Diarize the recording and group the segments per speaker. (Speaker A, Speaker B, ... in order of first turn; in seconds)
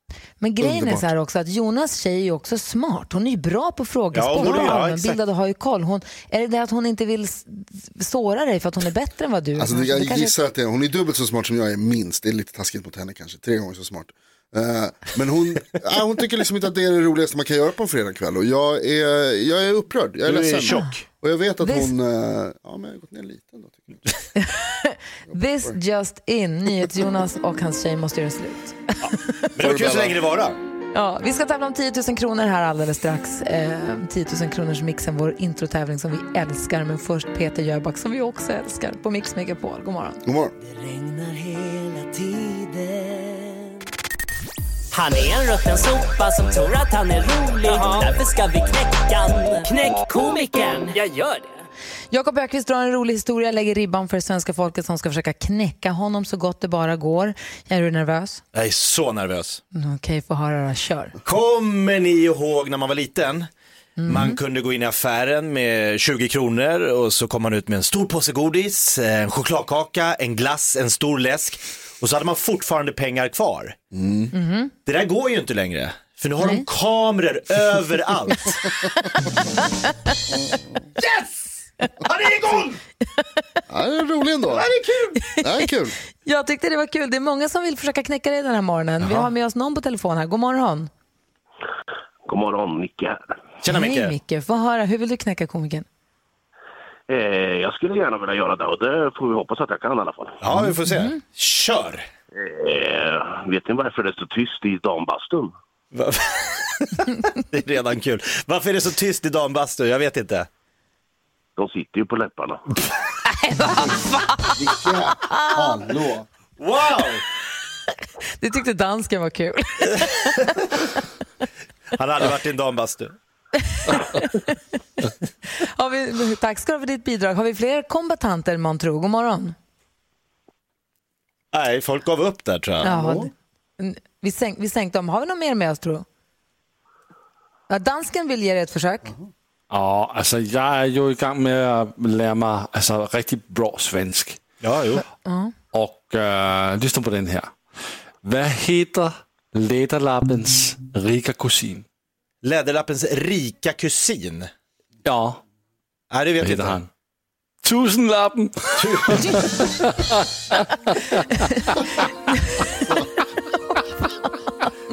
Speaker A: 0.4-10.3, 21.6-21.9, 24.4-28.8, 30.9-40.2, 52.1-58.4, 59.7-61.1, 64.0-64.4, 74.3-74.7, 76.4-76.6, 86.2-90.9, 93.7-95.9, 100.9-101.1, 118.4-120.8, 123.7-124.5, 125.6-129.6, 132.8-136.1, 137.7-139.1, 145.2-145.5, 161.4-161.8, 162.3-163.0, 163.5-164.7
Speaker B: 0.6-1.1, 4.4-4.7, 9.6-24.0, 25.3-25.7, 29.6-30.2, 40.2-40.5, 73.9-74.3, 83.7-84.7, 85.4-85.9, 114.5-116.2, 132.9-133.3
Speaker C: 4.1-5.2, 20.2-21.0, 29.6-30.6, 58.5-59.6, 61.2-63.5, 64.0-73.8, 74.8-78.5, 93.6-94.1, 100.4-102.0, 105.9-110.5, 116.6-117.2, 122.0-123.1, 131.5-133.0, 144.6-145.0, 152.4-154.5, 156.1-156.8, 158.8-159.4
Speaker D: 40.6-43.7, 44.9-51.5, 84.6-85.1
Speaker E: 92.3-93.2, 97.1-100.4, 102.3-105.5, 111.6-112.6
Speaker F: 139.7-144.4, 145.7-147.6, 148.2-151.8, 155.0-155.4, 156.4-156.9, 157.6-161.4